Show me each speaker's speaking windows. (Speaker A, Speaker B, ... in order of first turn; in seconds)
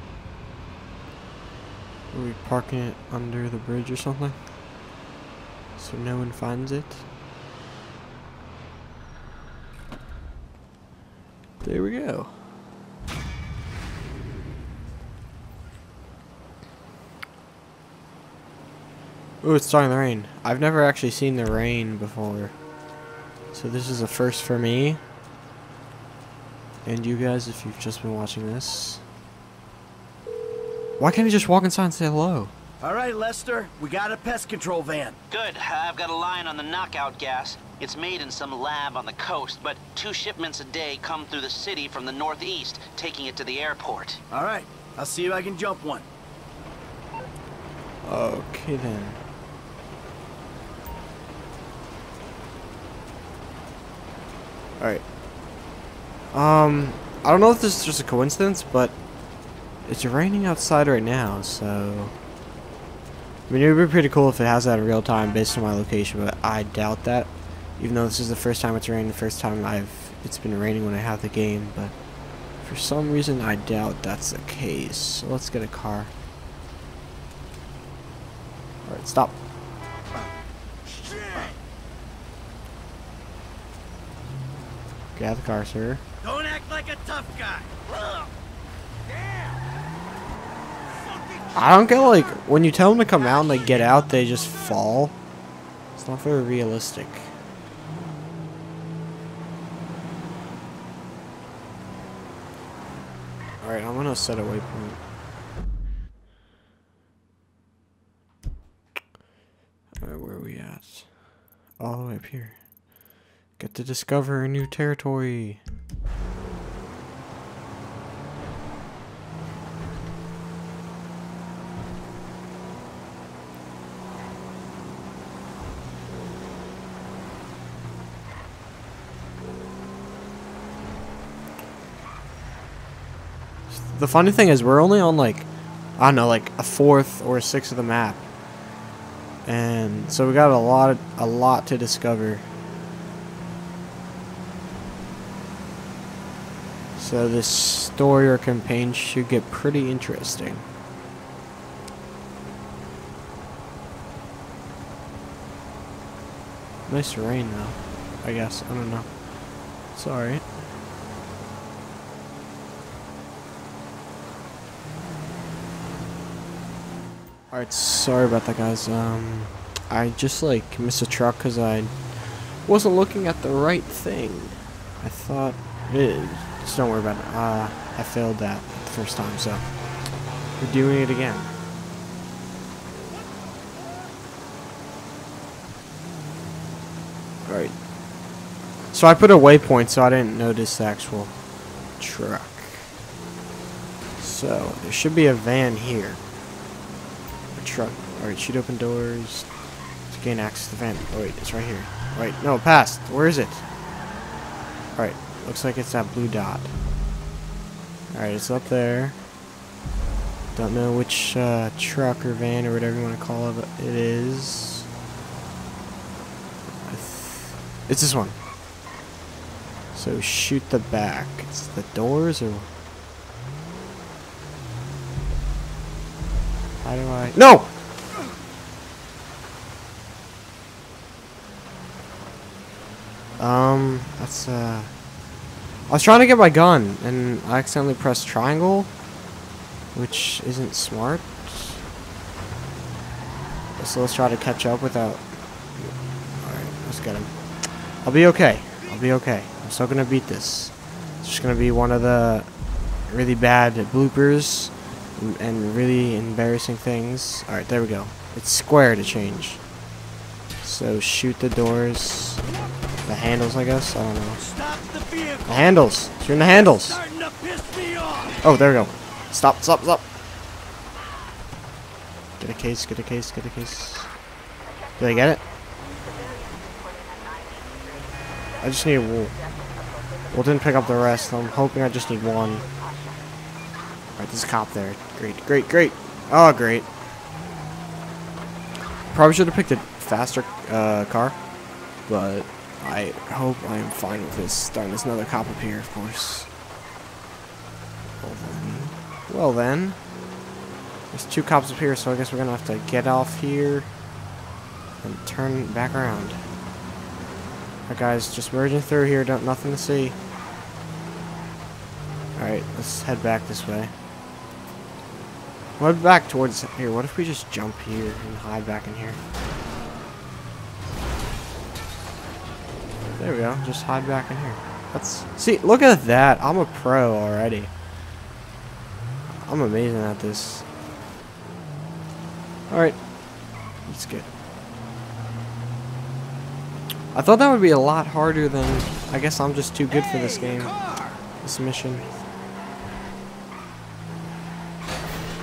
Speaker A: 2.1-4.5, 5.8-7.0, 11.6-12.5, 19.4-22.5, 23.5-25.0, 26.8-29.0, 31.0-32.5, 48.0-49.2, 54.8-55.0, 56.3-59.0, 59.8-62.1, 63.5-72.0, 72.5-76.1, 78.8-79.4, 85.1-86.0, 91.5-95.2, 96.0-97.3, 103.6-105.0, 110.0-112.7, 113.6-115.6, 133.7-138.2, 139.4-142.5, 146.9-150.7, 156.9-160.4, 167.5-179.8, 180.6-181.5, 187.4-187.8, 188.9-191.3, 192.0-192.9, 194.2-196.2, 197.5-199.5, 200.1-203.6, 204.9-206.7, 208.1-209.2, 210.5-214.9, 216.7-218.4, 219.9-222.7, 226.8-227.9, 233.4-235.0, 235.9-239.0, 239.9-241.8, 243.8-252.5, 253.1-259.6, 260.6-262.4, 263.0-264.4, 265.4-267.0, 268.4-270.1, 272.4-274.1, 275.0-275.4, 278.6-279.4, 280.3-282.7, 284.2-286.9, 289.1-291.4, 292.1-296.5, 298.2-300.0, 301.1-303.9, 305.0-306.4, 307.9-310.2, 312.4-313.9, 315.8-319.2, 323.1-327.7, 329.4-330.6, 332.7-333.3, 333.9-334.3, 337.1-340.8, 341.4-342.1
Speaker B: 32.8-35.2, 44.3-46.1, 80.9-81.6, 86.2-88.3, 89.1-89.6, 91.0-92.3, 264.4-265.7, 266.4-268.4, 339.9-341.2
Speaker C: 35.3-44.2